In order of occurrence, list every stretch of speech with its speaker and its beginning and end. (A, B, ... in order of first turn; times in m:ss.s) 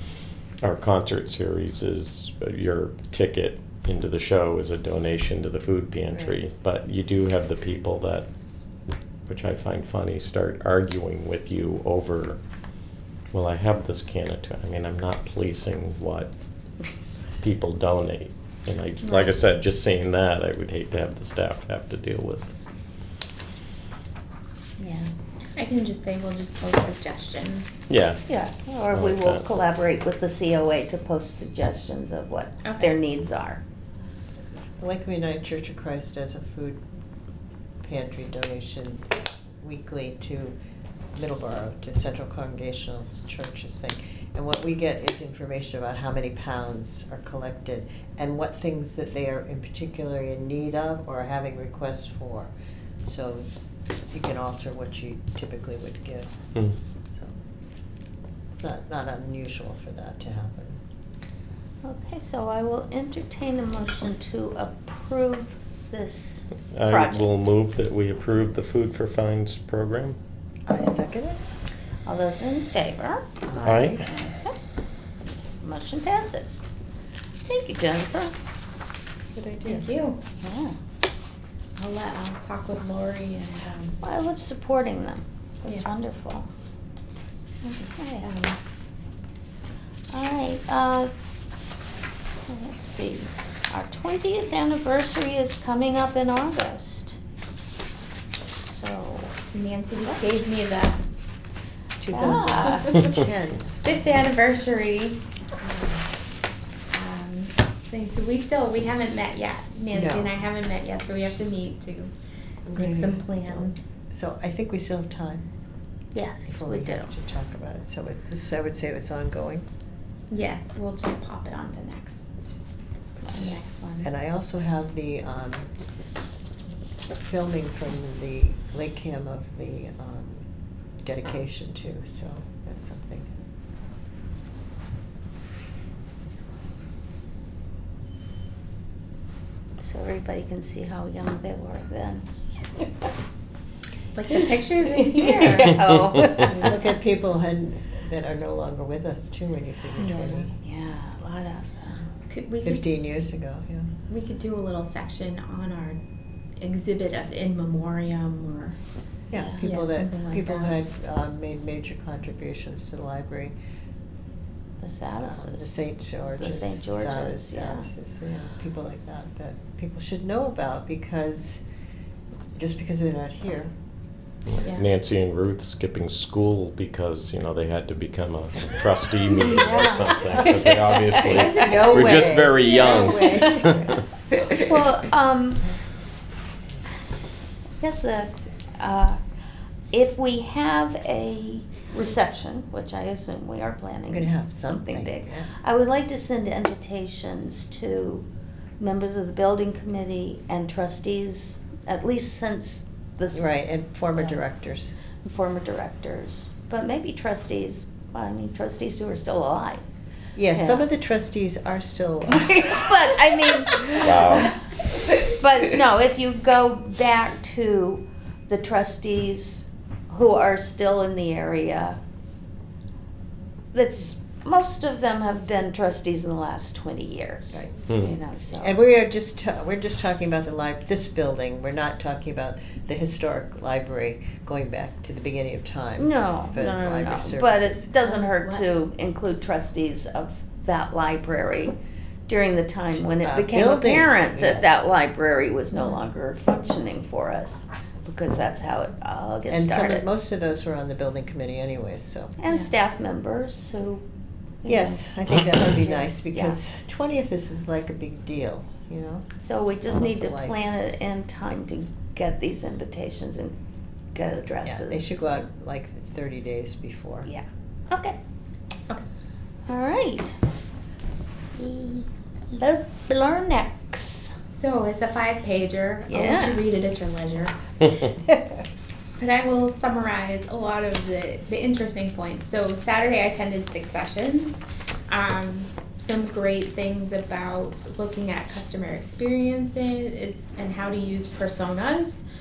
0:00.6-0:08.3 A
0:09.2-0:12.4 A
0:13.3-0:16.3 A
0:17.4-0:22.5 A
0:19.0-0:19.3 B
0:24.8-0:27.9 C
0:27.9-0:28.2 A
0:28.3-0:33.6 B
0:28.9-0:29.4 A
0:32.6-0:32.9 C
0:34.8-0:36.8 D
0:37.8-0:40.6 D
0:41.1-0:52.5 D
0:53.0-0:53.5 D
0:54.1-0:56.3 D
0:58.5-1:00.8 D
1:01.8-1:07.3 B
1:06.7-1:10.2 A
1:10.6-1:11.4 D
1:12.0-1:13.3 B
1:13.4-1:14.1 D
1:13.6-1:14.0 A
1:14.0-1:14.5 B
1:15.6-1:16.6 B
1:17.4-1:18.4 B
1:19.3-1:19.8 D
1:19.6-1:20.2 C
1:20.4-1:20.8 B
1:21.8-1:24.0 C
1:24.0-1:26.5 B
1:27.6-1:28.3 B
1:28.2-1:28.6 C
1:30.1-1:31.1 B
1:32.5-1:37.2 B
1:38.5-1:39.4 B
1:39.4-1:41.0 C
1:40.0-1:40.4 B
1:42.0-1:43.8 D
1:42.1-1:43.1 B
1:42.2-1:43.1 C
1:43.8-1:45.2 C
1:46.9-1:52.1 C
1:49.9-1:50.3 D
1:52.7-1:55.5 D
1:52.7-1:53.8 C
1:56.1-1:57.1 B
1:56.5-1:59.7 D
2:00.3-2:02.6 C
2:03.2-2:04.1 C
2:04.0-2:05.7 D
2:07.2-2:10.4 D
2:11.0-2:13.4 D
2:19.8-2:22.3 B
2:24.1-2:25.9 C
2:25.5-2:26.5 B
2:26.3-2:30.5 D
2:30.0-2:30.5 C
2:30.6-2:32.0 B
2:32.3-2:32.9 C
2:32.6-2:33.9 D
2:34.1-2:36.0 C
2:36.6-2:38.8 C
2:39.3-2:43.5 D
2:39.4-2:39.6 B
2:39.5-2:40.8 C
2:44.8-2:45.8 B
2:45.2-2:51.6 D
2:46.3-2:47.9 B
2:52.6-2:53.7 D
2:54.5-3:04.0 A
2:59.4-3:01.4 B
3:01.1-3:03.1 C
3:01.5-3:04.7 D
3:03.0-3:03.8 B
3:04.5-3:05.7 B
3:07.8-3:09.2 B
3:09.9-3:18.2 B
3:14.1-3:15.5 D
3:18.8-3:23.6 B
3:23.3-3:25.0 D
3:25.2-3:29.8 B
3:30.4-3:33.0 D
3:30.5-3:30.8 B
3:32.3-3:42.0 B
3:34.0-3:34.6 A
3:43.7-3:48.7 B
3:47.5-3:47.9 D
3:47.9-3:48.1 A
3:48.4-3:57.9 D
3:56.0-4:01.7 B
3:58.0-3:58.7 C
4:02.3-4:10.1 B
4:03.1-4:04.7 D
4:09.5-4:12.4 D
4:12.4-4:14.0 B
4:12.4-4:12.7 C
4:14.6-4:16.6 B
4:14.6-4:19.3 D
4:19.4-4:23.5 B
4:19.8-4:20.6 D
4:24.1-4:25.2 B
4:24.6-4:27.3 D
4:27.2-4:28.2 B
4:29.7-4:30.3 B
4:31.5-4:34.4 B
4:34.5-4:37.6 C
4:36.1-4:36.6 B
4:39.2-4:52.2 C